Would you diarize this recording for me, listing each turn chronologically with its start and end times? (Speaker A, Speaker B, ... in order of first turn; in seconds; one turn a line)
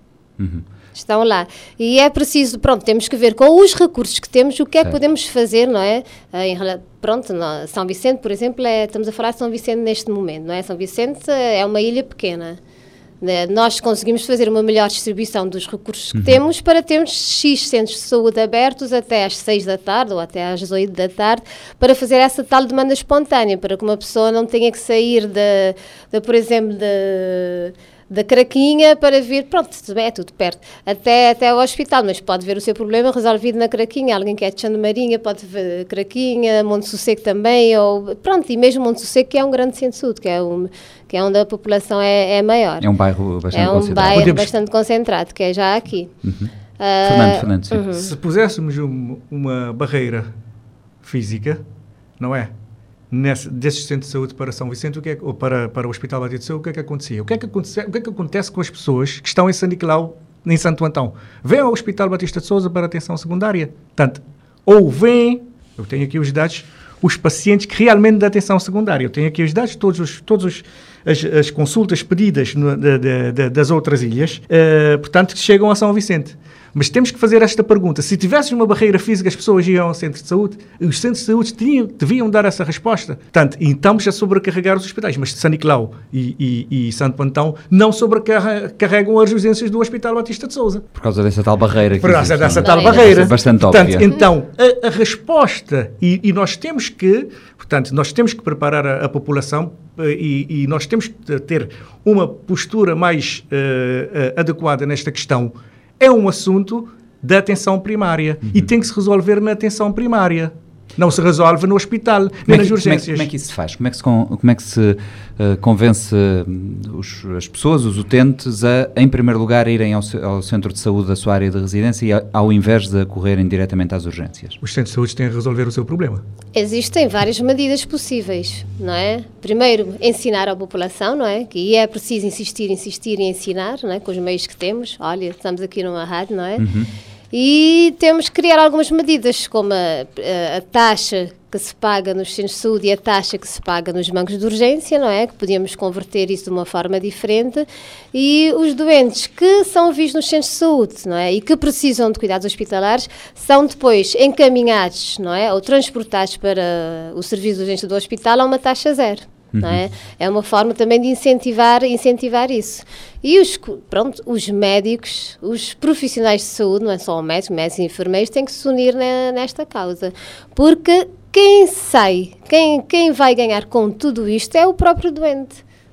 Speaker A: 0.4-0.7
Speaker B: 0.9-12.6
Speaker B: 13.2-42.9
Speaker A: 16.1-16.4
Speaker A: 42.8-44.5
Speaker B: 43.5-46.1
Speaker C: 44.1-44.5
Speaker A: 46.2-46.5
Speaker B: 46.8-48.1
Speaker A: 47.0-47.8
Speaker C: 48.0-50.3
Speaker C: 51.0-51.6
Speaker C: 52.2-52.5
Speaker C: 53.1-90.8
Speaker A: 90.9-94.1
Speaker C: 92.0-113.3
Speaker B: 92.6-93.4
Speaker A: 112.5-124.6
Speaker C: 124.6-126.2
Speaker B: 126.5-136.7
Speaker A: 136.6-136.9
Speaker B: 137.3-175.6
Speaker A: 159.5-159.8